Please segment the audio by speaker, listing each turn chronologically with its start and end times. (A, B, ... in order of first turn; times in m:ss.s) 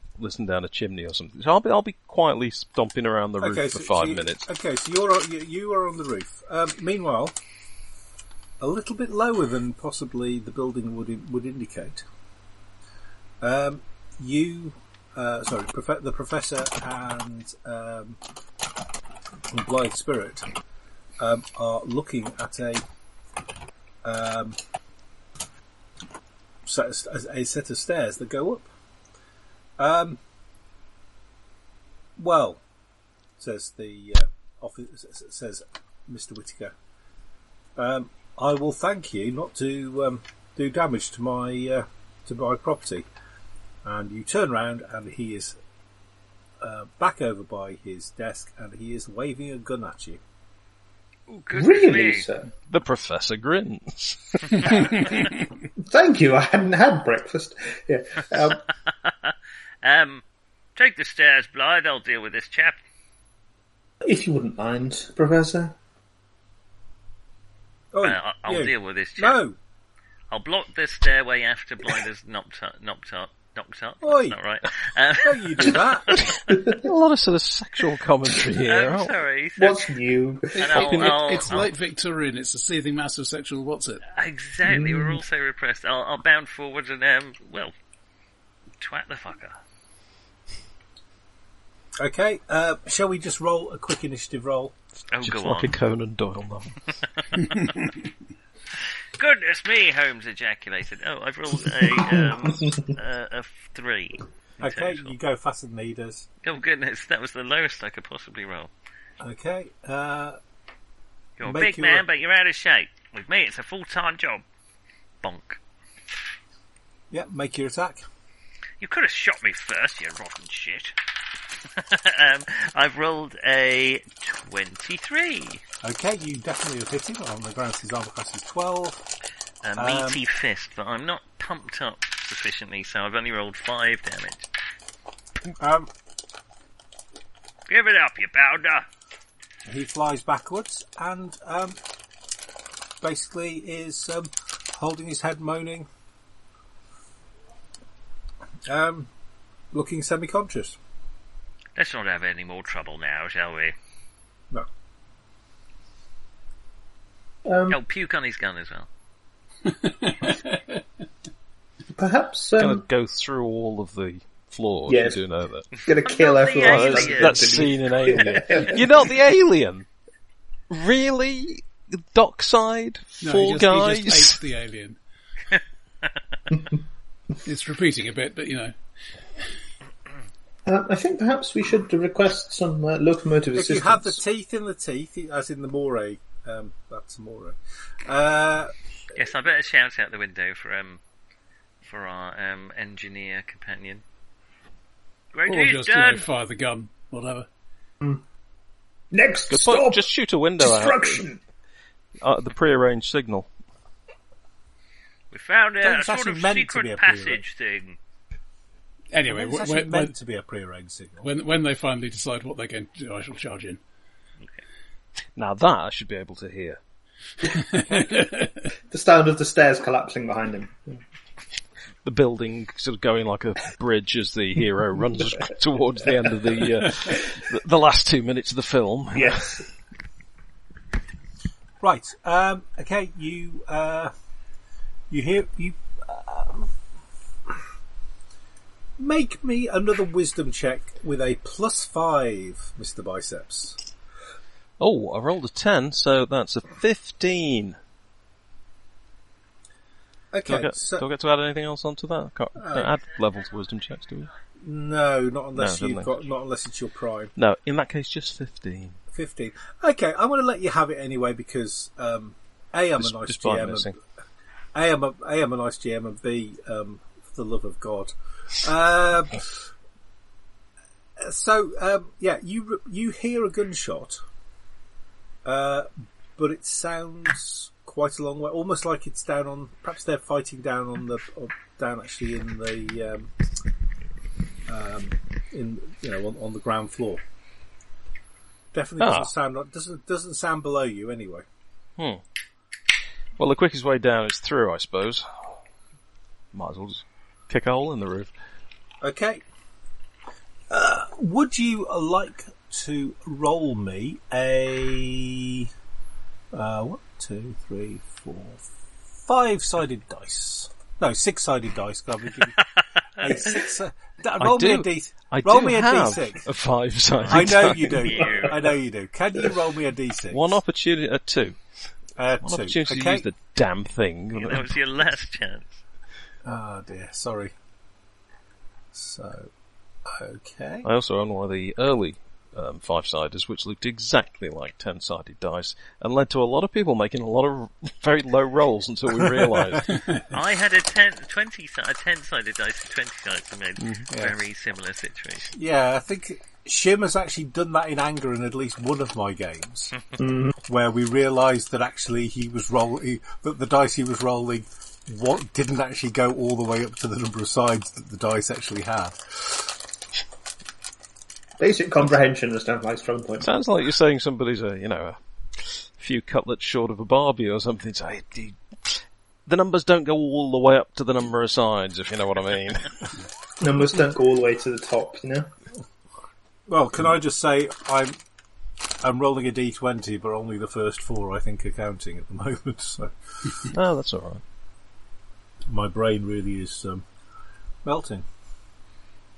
0:00.2-0:04.5 A
0:03.4-0:07.4 B
0:08.6-0:12.0 B
0:13.4-0:18.2 B
0:19.5-0:20.5 B
0:21.2-0:22.8 B
0:24.0-0:24.6 B
0:26.6-0:28.7 B
0:29.8-0:30.2 B
0:32.2-0:32.6 B
0:33.4-0:36.8 B
0:37.8-0:43.1 B
0:43.8-0:45.6 B
0:46.6-0:50.2 B
0:51.3-0:52.3 C
0:51.5-0:52.5 D
0:52.7-0:55.0 A
0:54.8-0:55.2 E
0:55.8-0:58.6 D
0:58.9-1:00.2 C
1:00.8-1:02.8 C
1:04.0-1:05.8 D
1:07.9-1:09.6 B
1:08.0-1:09.4 C
1:10.3-1:16.3 C
1:14.0-1:14.4 B
1:15.2-1:16.2 B
1:16.5-1:16.9 D
1:16.7-1:19.2 A
1:18.6-1:19.8 C
1:19.6-1:20.8 D
1:20.6-1:24.0 E
1:20.6-1:21.7 C
1:20.8-1:21.4 A
1:24.1-1:27.7 C
1:24.6-1:25.2 D
1:28.8-1:29.6 C
1:32.0-1:34.8 B
1:35.1-1:35.8 C
1:35.2-1:36.8 A
1:37.2-1:37.8 C
1:39.2-1:45.1 C
1:41.9-1:42.9 D
1:44.6-1:46.3 B
1:46.4-1:48.7 C
1:49.2-1:50.4 B
1:51.4-1:54.4 C
1:51.4-1:52.0 B
1:55.2-1:55.6 C
1:57.1-1:58.0 B
1:58.8-2:01.0 C
2:01.7-2:05.6 C
2:05.8-2:09.0 B
2:09.6-2:14.5 C
2:09.8-2:10.2 B
2:15.6-2:15.9 B
2:17.7-2:18.9 C
2:19.6-2:21.8 B
2:23.0-2:25.9 B
2:28.7-2:29.1 B
2:29.7-2:30.8 B
2:31.8-2:33.8 C
2:37.5-2:37.8 D
2:37.7-2:38.9 C
2:39.7-2:40.8 E
2:42.0-2:42.8 D
2:42.6-2:45.7 A
2:44.9-2:45.2 D
2:45.8-2:48.8 D
2:46.0-2:47.6 C
2:46.6-2:49.9 A
2:50.7-2:54.4 A
2:53.2-2:55.0 E
2:57.4-2:58.8 E
3:00.6-3:04.2 D
3:03.5-3:08.7 B
3:09.1-3:11.0 C
3:11.8-3:14.0 C
3:15.3-3:16.2 C
3:15.5-3:17.5 E
3:19.1-3:21.4 D
3:19.5-3:21.2 A
3:22.2-3:23.5 A
3:25.3-3:28.0 C
3:25.8-3:27.4 B
3:29.1-3:30.1 E
3:29.3-3:31.3 B
3:31.2-3:33.8 E
3:35.4-3:36.8 A
3:37.4-3:38.6 E
3:38.9-3:41.0 D
3:42.0-3:49.6 A
3:49.1-3:49.7 D
3:51.8-3:54.1 B
3:55.1-3:56.7 B
3:59.0-4:03.8 B
4:04.8-4:07.8 A
4:10.3-4:11.1 B
4:10.5-4:14.3 A
4:12.6-4:12.9 B
4:14.6-4:17.3 B
4:15.6-4:16.2 A
4:17.4-4:19.0 A
4:19.1-4:23.9 B
4:23.0-4:23.9 A
4:24.7-4:29.7 B
4:31.2-4:34.2 B
4:35.4-4:43.3 B
4:44.7-4:47.2 B
4:48.7-4:51.4 B
4:49.0-4:49.3 A
4:53.4-4:55.3 A
4:56.5-4:58.3 A
4:59.0-4:59.4 B
5:00.7-5:05.7 B
5:06.5-5:08.6 B
5:09.2-5:12.6 B
5:13.2-5:16.5 B
5:14.4-5:18.1 A
5:17.2-5:18.6 C
5:17.3-5:20.6 B
5:20.3-5:21.6 A
5:22.2-5:23.3 B
5:22.4-5:24.7 A
5:24.4-5:25.8 C
5:26.4-5:27.5 B
5:28.9-5:29.5 B
5:30.1-5:30.9 B
5:30.8-5:39.9 A
5:39.2-5:39.8 B
5:40.3-5:45.5 C
5:43.8-5:44.1 A
5:44.1-5:44.4 B
5:45.5-5:50.0 B
5:50.2-5:50.6 D
5:50.6-5:59.7 B
6:01.6-6:03.5 D
6:03.4-6:12.9 A
6:13.6-6:15.5 D
6:16.7-6:18.2 B
6:19.0-6:23.6 B
6:23.7-6:24.4 A
6:25.7-6:27.0 B
6:27.8-6:28.2 B